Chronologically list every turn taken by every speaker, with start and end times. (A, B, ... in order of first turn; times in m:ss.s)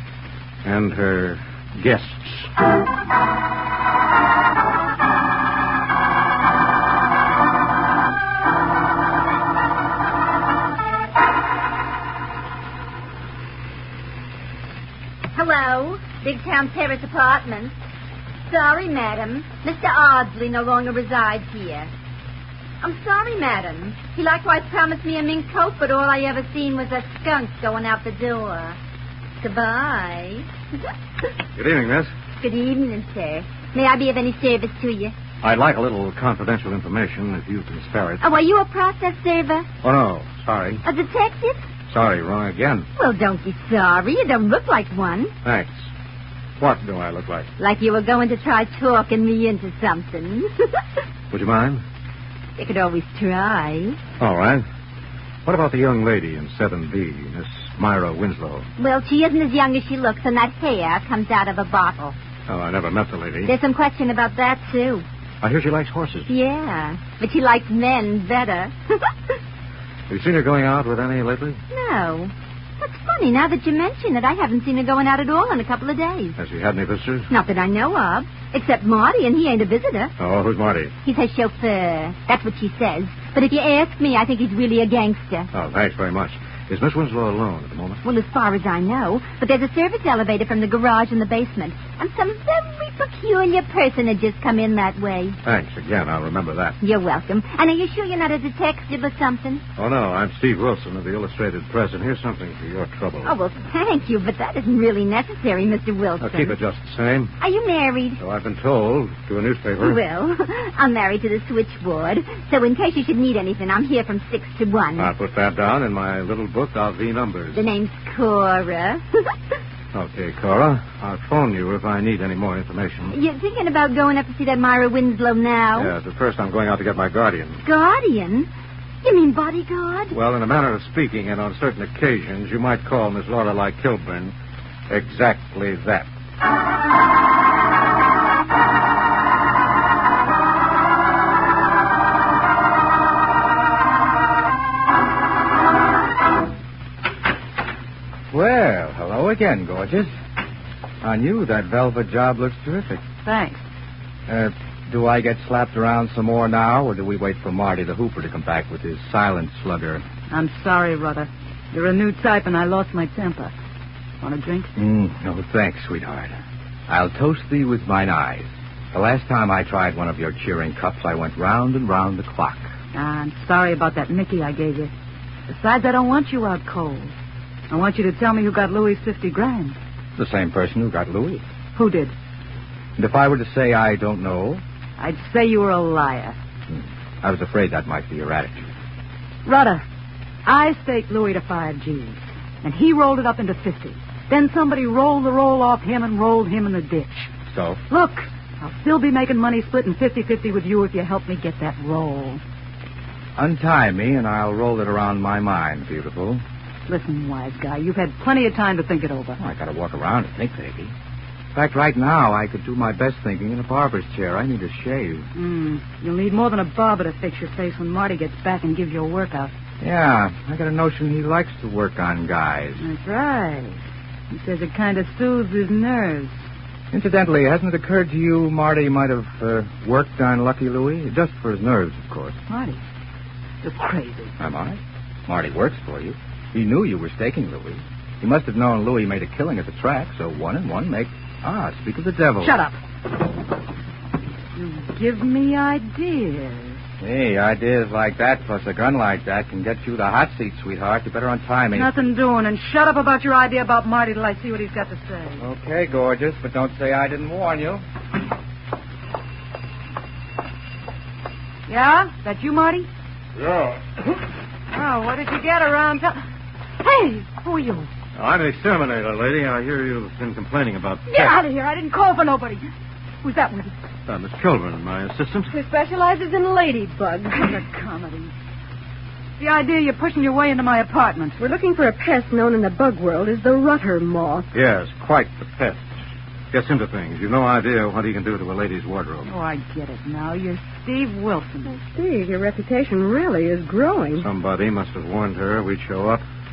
0:00.6-0:02.5 A
0:15.3-0:17.7 B
0:18.5-0:21.9 B
0:22.8-0:28.8 B
0:29.4-0:30.5 B
0:31.6-0:32.1 A
0:32.4-0:35.1 B
0:35.4-0:38.2 A
0:38.2-0:39.7 B
0:39.8-0:40.8 A
0:40.8-0:41.6 B
0:41.9-0:42.9 A
0:43.0-0:45.3 B
0:45.4-0:45.9 A
0:46.6-0:47.5 A
0:47.6-0:50.5 B
0:51.3-0:51.8 A
0:52.6-0:54.0 B
0:54.2-0:54.6 A
0:55.4-0:58.7 A
0:58.8-1:02.1 B
1:02.5-1:03.5 A
1:03.4-1:05.0 B
1:05.4-1:06.3 A
1:06.3-1:09.1 B
1:10.1-1:11.6 A
1:11.7-1:16.4 B
1:16.4-1:17.3 A
1:17.3-1:20.1 B
1:20.2-1:20.9 A
1:21.0-1:25.5 B
1:25.5-1:28.0 A
1:28.0-1:35.4 B
1:35.4-1:36.8 A
1:36.8-1:39.6 B
1:39.8-1:43.3 A
1:43.2-1:46.6 B
1:46.2-1:47.3 A
1:47.4-1:48.2 B
1:48.2-1:50.0 A
1:49.8-1:55.1 B
1:55.0-1:57.6 A
1:57.5-1:59.0 B
1:59.9-2:03.1 A
2:03.1-2:05.9 B
2:05.8-2:07.6 A
2:07.6-2:08.5 B
2:09.0-2:10.2 B
2:10.1-2:14.3 A
2:14.9-2:16.1 A
2:28.3-2:30.1 C
2:31.0-2:33.0 C
2:33.2-2:33.6 D
2:34.3-2:40.0 C
2:40.3-2:43.5 D
2:44.2-2:44.7 D
2:44.8-2:52.7 C
2:52.9-2:54.9 D
2:55.5-2:57.1 D
2:57.7-2:59.8 D
3:00.2-3:01.4 C
3:01.8-3:02.1 D
3:03.0-3:04.6 C
3:05.0-3:06.4 D
3:06.7-3:08.7 C
3:09.4-3:09.8 D
3:10.5-3:17.3 D
3:17.5-3:17.8 C
3:17.9-3:22.4 D
3:23.4-3:26.4 C
3:26.9-3:29.4 D
3:29.4-3:30.9 C
3:31.6-3:35.3 C
3:35.4-3:39.5 D
3:39.8-3:42.8 C
3:42.8-3:43.8 D
3:44.3-3:46.4 D
3:46.9-3:52.4 C
3:52.5-3:52.8 D
3:53.6-3:54.3 D
3:54.4-4:02.6 C
4:02.4-4:02.8 D
4:04.6-4:06.8 D
4:07.0-4:11.9 C
4:11.7-4:15.4 D
4:15.4-4:17.8 C
4:21.7-4:22.9 D
4:24.7-4:26.2 D
4:26.8-4:27.9 D
4:28.2-4:31.4 A
4:31.1-4:32.7 D
4:33.2-4:33.7 D
4:34.1-4:35.5 A
4:35.5-4:37.6 E
4:37.4-4:38.3 D
4:39.4-4:41.4 D
4:41.4-4:44.5 E
4:44.5-4:46.0 A
4:46.5-4:49.3 A
4:49.3-4:51.8 D
4:51.7-4:54.3 E
4:54.2-4:56.2 A